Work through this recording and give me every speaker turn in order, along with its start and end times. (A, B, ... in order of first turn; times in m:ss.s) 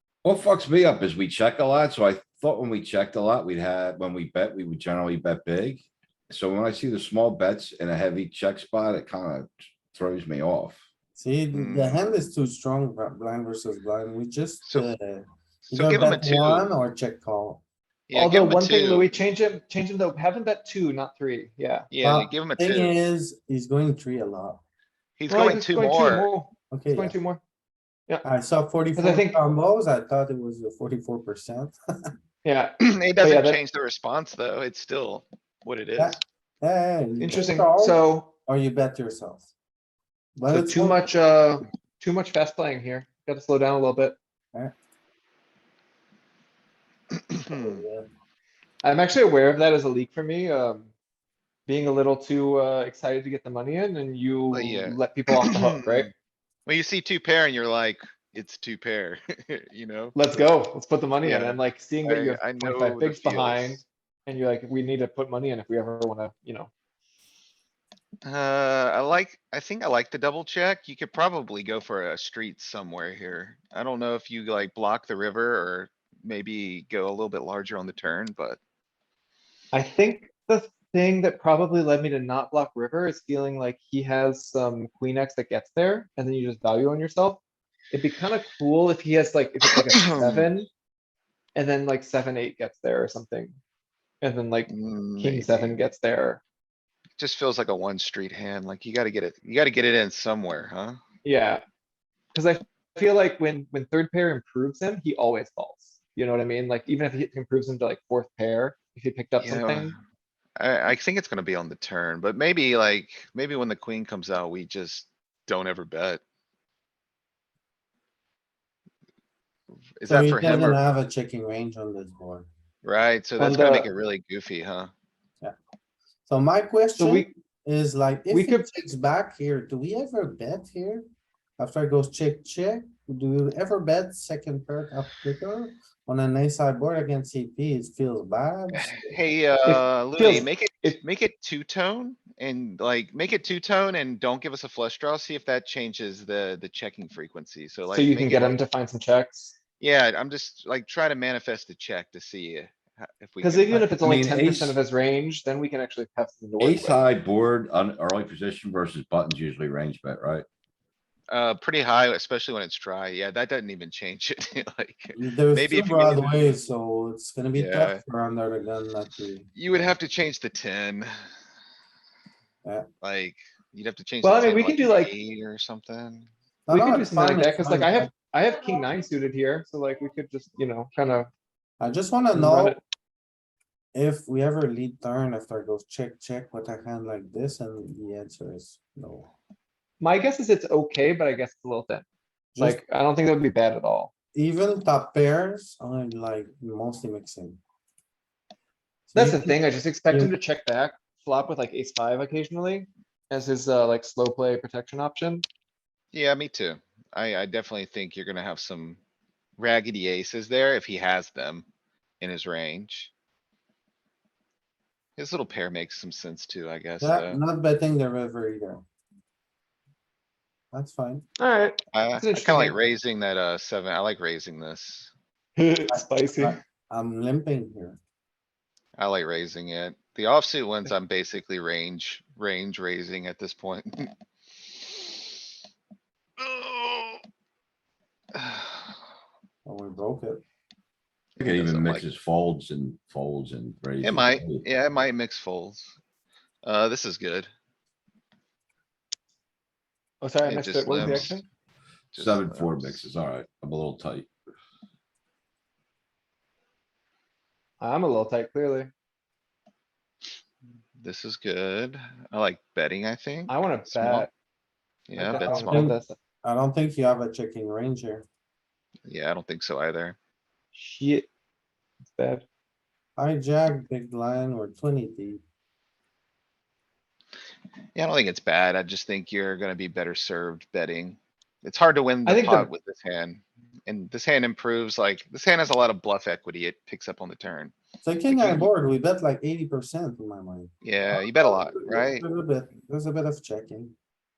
0:00.2-0:10.8 A
0:11.2-0:17.6 B
0:11.5-0:12.1 C
0:14.6-0:14.9 C
0:15.7-0:16.7 C
0:18.1-0:19.1 C
0:18.1-0:21.9 D
0:21.9-0:22.9 C
0:22.0-0:24.6 B
0:25.2-0:26.3 C
0:25.3-0:27.4 D
0:26.7-0:27.2 B
0:28.2-0:32.1 B
0:29.0-0:29.4 D
0:32.4-0:33.6 D
0:32.8-0:36.2 C
0:36.0-0:39.5 B
0:37.2-0:38.3 D
0:40.4-0:41.1 B
0:40.5-0:44.2 D
0:47.3-0:47.8 C
0:47.5-0:48.0 B
0:48.8-0:50.9 D
0:51.7-0:56.1 D
0:54.5-0:56.1 C
0:56.6-1:00.2 C
1:00.1-1:06.7 D
1:01.2-1:03.8 C
1:08.2-1:18.6 C
1:19.7-1:27.4 D
1:27.9-1:30.7 D
1:29.7-1:30.5 C
1:31.5-1:33.6 D
1:34.2-1:36.4 D
1:34.7-1:35.8 C
1:37.2-1:41.0 C
1:41.2-1:41.6 D
1:42.3-1:49.9 D
1:49.4-1:50.0 C
1:50.6-1:56.2 C
2:00.0-2:00.8 C
2:00.0-2:02.5 B
2:02.8-2:04.9 C
2:03.4-2:03.9 D
2:06.2-2:11.0 B
2:07.0-2:07.3 D
2:08.3-2:08.7 D
2:11.6-2:19.0 B
2:18.7-2:28.6 C
2:19.6-2:21.0 D
2:27.9-2:29.5 D
2:29.8-2:34.1 C
2:33.4-2:37.0 D
2:33.9-2:34.8 A
2:36.6-2:40.4 A
2:41.3-2:46.6 C
2:45.1-2:49.9 B
2:47.5-2:48.0 C
2:49.5-2:51.1 C
2:53.0-2:56.3 C
2:54.2-2:55.1 D
2:56.7-2:58.1 B
2:56.7-3:01.3 D
3:01.8-3:02.8 B
3:02.3-3:02.8 D
3:03.9-3:09.3 B
3:10.0-3:12.0 D
3:12.5-3:12.8 B
3:12.6-3:14.1 D
3:14.3-3:17.6 B
3:19.1-3:20.3 B
3:19.1-3:25.4 D
3:26.1-3:29.0 C
3:29.6-3:31.6 C
3:32.2-3:33.1 C
3:35.2-3:37.4 C
3:37.0-3:38.8 B
3:40.7-3:41.2 B
3:41.4-3:42.7 D
3:41.9-3:45.1 C
3:45.6-3:46.6 D
3:45.9-3:48.0 B
3:49.0-3:54.1 C
3:54.8-3:55.1 C
3:56.4-3:57.2 C
3:58.3-3:58.9 C
3:59.6-4:00.4 B
4:01.4-4:02.1 C
4:01.4-4:04.6 A
4:04.0-4:05.9 C
4:06.6-4:07.5 C
4:10.2-4:11.4 D
4:10.4-4:11.4 C
4:12.1-4:13.0 C
4:12.1-4:14.3 A
4:17.8-4:18.9 D
4:21.0-4:24.3 C
4:23.5-4:24.3 D
4:25.1-4:26.0 C
4:25.2-4:26.2 D
4:25.4-4:28.2 B
4:29.0-4:30.2 C
4:30.7-4:31.3 D
4:32.1-4:32.4 D
4:33.2-4:35.4 B
4:37.9-4:47.7 C
4:42.2-4:42.7 D
4:48.0-4:53.9 B
4:48.3-4:48.7 C
4:50.8-4:52.2 C